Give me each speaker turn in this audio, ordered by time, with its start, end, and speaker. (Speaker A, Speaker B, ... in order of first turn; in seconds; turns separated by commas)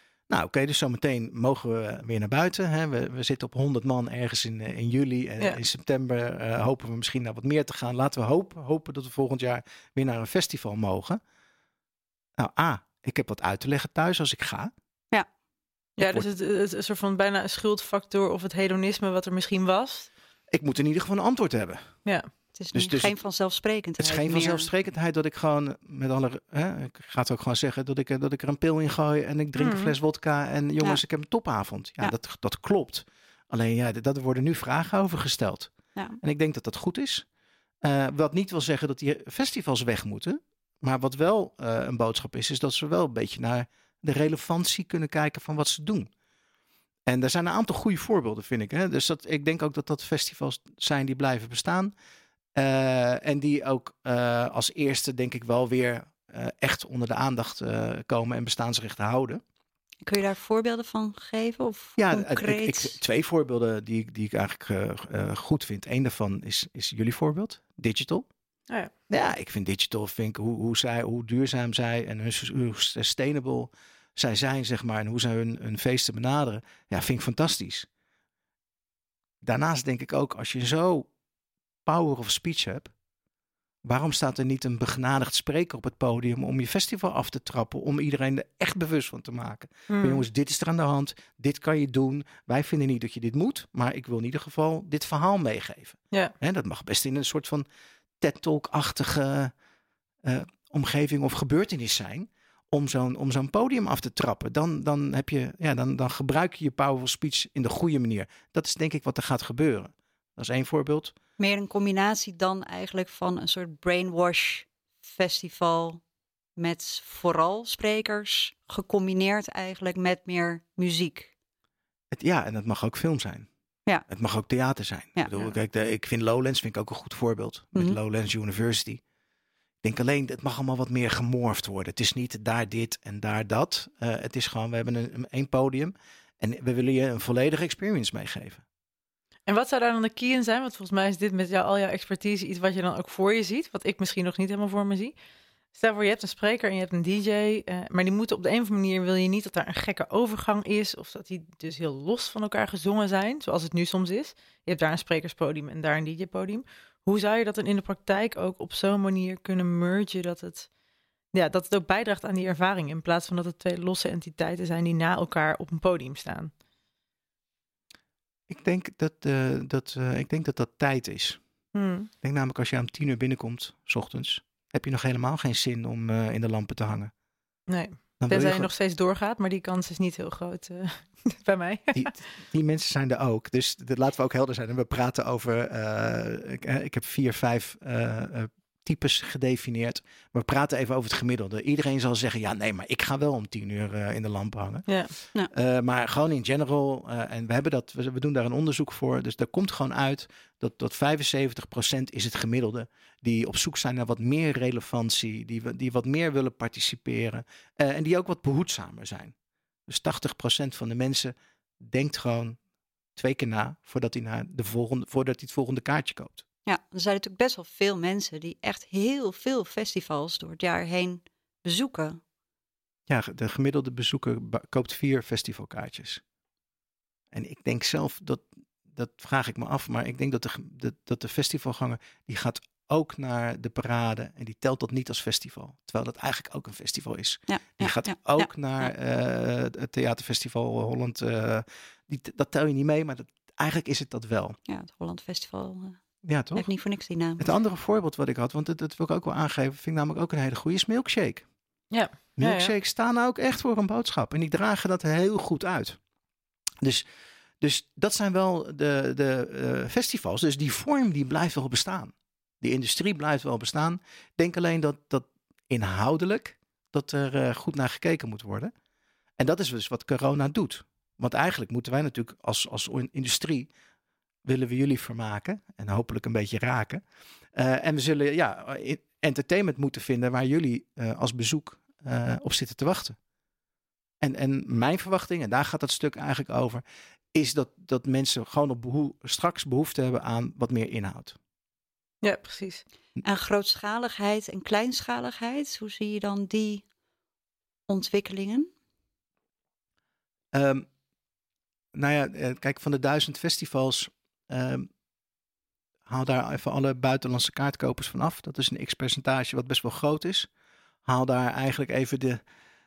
Speaker A: 0.3-11.2, Speaker A: 12.4-14.7, Speaker B: 16.0-20.1, Speaker A: 16.0-16.3, Speaker A: 20.5-21.9, Speaker C: 22.6-24.7, Speaker A: 22.7-23.1, Speaker A: 24.0-37.3, Speaker B: 29.6-29.9, Speaker A: 37.8-46.1, Speaker A: 47.1-51.9, Speaker A: 52.5-59.4, Speaker C: 60.0-63.0, Speaker A: 62.0-68.3, Speaker A: 69.1-77.9, Speaker A: 79.4-81.1, Speaker A: 81.9-82.9, Speaker A: 83.8-97.7, Speaker B: 89.9-90.2, Speaker A: 98.2-99.5, Speaker A: 100.2-111.1, Speaker C: 111.4-116.0, Speaker C: 116.6-121.3, Speaker A: 122.1-123.5, Speaker A: 124.1-129.0, Speaker C: 125.2-125.5, Speaker A: 129.8-138.6, Speaker B: 139.5-145.2, Speaker B: 145.7-160.7, Speaker B: 161.3-166.5, Speaker A: 168.5-171.4, Speaker B: 171.7-172.1, Speaker A: 172.2-177.1, Speaker B: 177.7-182.1, Speaker A: 178.2-178.7, Speaker A: 181.9-194.9, Speaker A: 195.5-209.3, Speaker A: 209.9-212.6, Speaker A: 213.2-216.4, Speaker C: 216.7-222.2, Speaker A: 223.1-226.2, Speaker A: 227.3-244.6, Speaker C: 237.5-238.9, Speaker C: 244.7-246.0, Speaker A: 246.2-246.7, Speaker C: 246.6-247.4, Speaker A: 247.4-251.4, Speaker B: 251.9-252.7, Speaker A: 252.4-256.0, Speaker A: 256.8-257.1, Speaker A: 257.6-268.7, Speaker A: 269.4-273.7, Speaker A: 274.4-277.0, Speaker A: 277.5-283.2, Speaker A: 284.2-291.4, Speaker B: 292.2-292.8, Speaker C: 293.2-296.9, Speaker C: 297.9-298.7, Speaker A: 300.5-300.9, Speaker A: 301.9-304.9, Speaker A: 306.1-310.5, Speaker A: 311.1-312.4